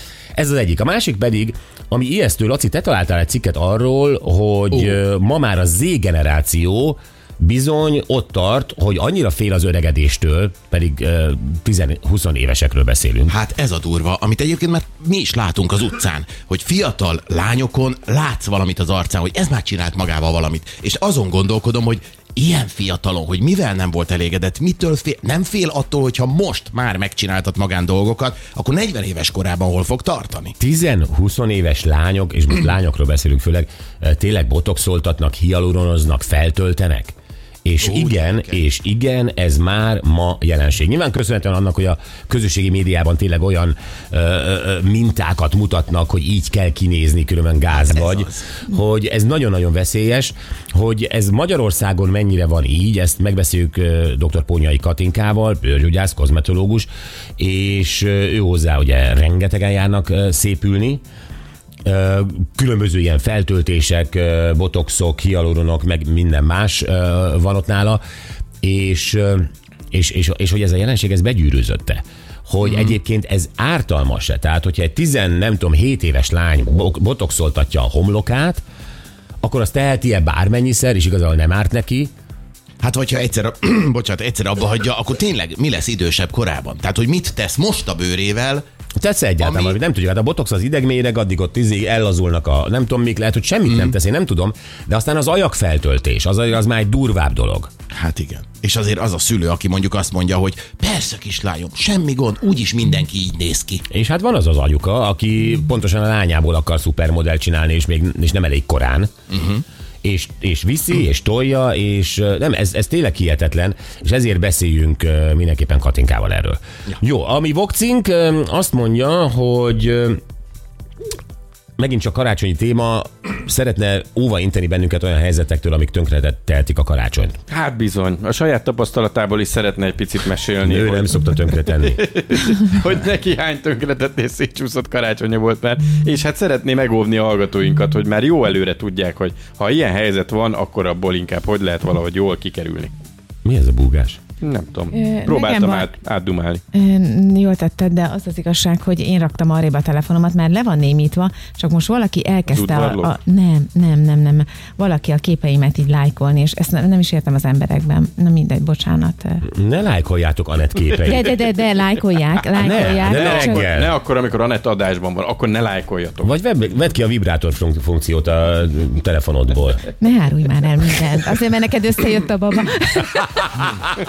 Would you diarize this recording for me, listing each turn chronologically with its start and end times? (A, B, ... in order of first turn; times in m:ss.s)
0:00.4-0:13.3 A
0:13.3-0:30.5 B
0:30.6-1:01.0 A
0:37.8-0:38.6 B
0:47.7-0:48.6 B
1:01.8-1:08.0 A
1:08.6-1:18.6 A
1:12.6-1:12.9 B
1:19.4-1:22.1 A
1:22.8-1:28.6 B
1:29.0-1:37.7 A
1:29.4-1:29.8 B
1:33.7-1:33.9 B
1:37.9-1:43.8 B
1:43.9-1:49.1 A
1:49.3-1:49.6 B
1:50.0-2:00.2 A
2:01.8-2:07.4 A
2:07.5-2:22.9 C
2:10.6-2:12.0 A
2:23.4-2:24.2 A
2:24.4-2:26.6 C
2:24.9-2:25.9 D
2:26.7-2:39.4 D
2:32.5-2:33.1 C
2:39.4-2:41.3 A
2:41.0-2:43.6 D
2:42.6-2:43.9 A
2:43.0-2:46.3 C
2:46.2-2:49.9 A
2:50.0-2:53.2 D
2:53.4-2:53.7 A